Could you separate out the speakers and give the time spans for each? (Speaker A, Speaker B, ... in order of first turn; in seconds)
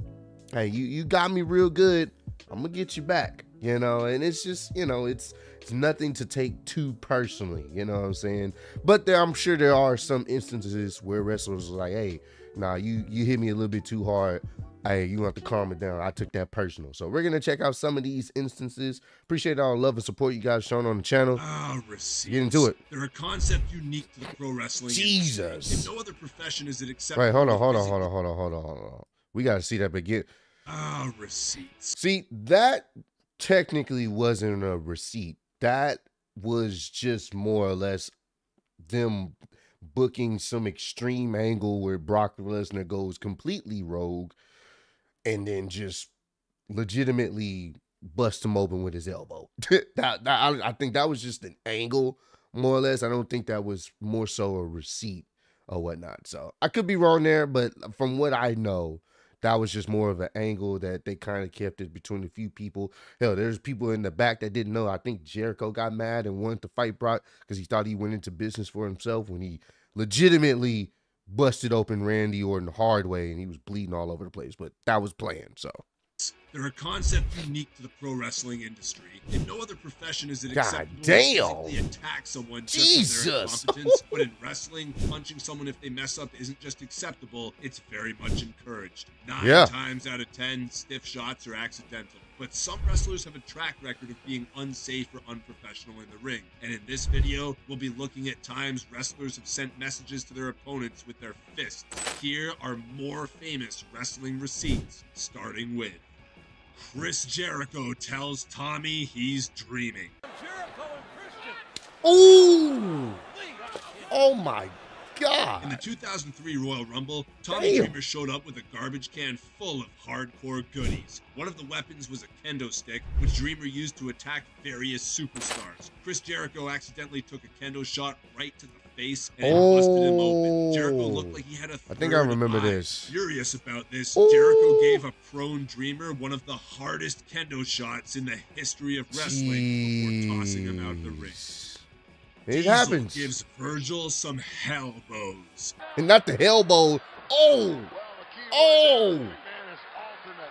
Speaker A: 0.5-21.4, 22.3-22.8, 24.9-25.9, 27.1-30.3, 31.9-38.1, 38.8-44.4, 45.2-46.1, 46.7-75.8, 80.5-81.8, 82.7-84.1, 89.4-89.7, 112.0-113.2, 114.1-115.8, 117.5-117.9, 129.4-131.4, 131.9-133.1, 134.2-135.0, 139.1-141.8, 142.5-143.3, 145.9-147.9, 148.5-149.4
Speaker B: 21.3-28.1, 30.7-31.9, 76.2-106.0, 106.7-110.1, 115.6-141.4, 142.5-145.7